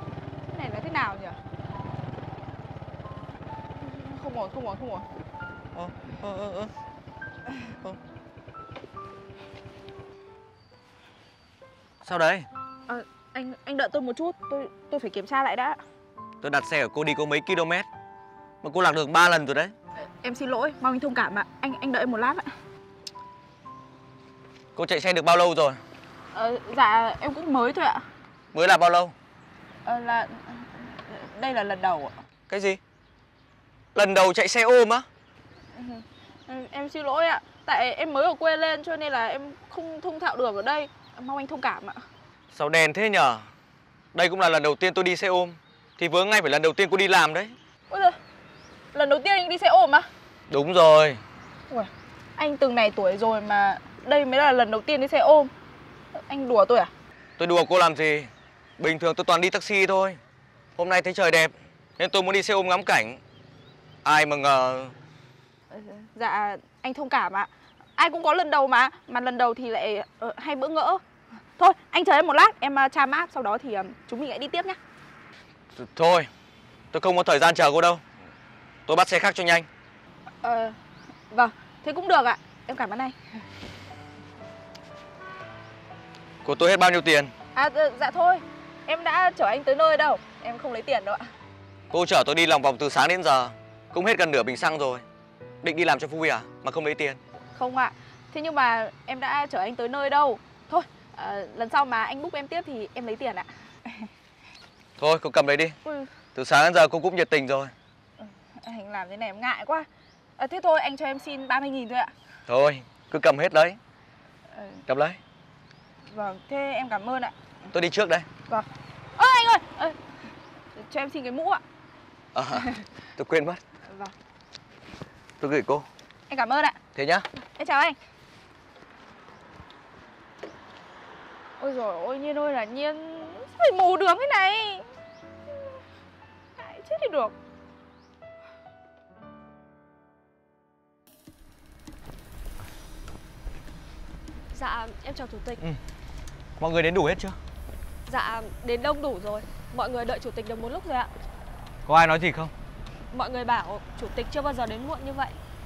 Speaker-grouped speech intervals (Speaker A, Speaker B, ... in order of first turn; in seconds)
Speaker A: 0.5-1.4, 3.8-5.0, 12.9-15.8, 20.2-22.5, 26.3-28.0, 29.8-32.1, 35.7-42.0, 47.9-48.2, 48.9-50.1, 51.7-55.5, 56.3-56.9, 65.7-71.0, 71.6-74.8, 80.4-80.8, 81.3-83.2, 87.5-91.3, 97.5-104.1, 105.8-106.1, 108.2-109.9, 110.4-112.1, 114.5-114.8, 116.1-117.3, 118.5-120.0, 120.7-121.6, 126.3-126.8, 127.5-128.0, 131.6-134.8, 136.6-137.3
Speaker B: 5.7-6.7, 12.0-12.5, 16.4-17.9, 18.6-19.7, 24.7-25.8, 28.5-29.1, 32.5-32.8, 33.9-35.1, 42.5-43.5, 44.1-47.5, 50.5-51.2, 57.4-60.2, 60.8-63.2, 64.0-64.9, 75.7-76.3, 76.9-78.0, 78.9-79.7, 86.4-87.3, 91.9-95.0, 95.6-97.2, 105.0-105.8, 106.3-107.7, 112.5-113.8, 114.9-115.2, 117.7-118.2, 122.3-123.6, 125.4-125.8, 126.9-127.2, 146.6-147.3, 151.8-152.5
Speaker C: 144.5-145.6, 148.1-151.1, 153.1-155.3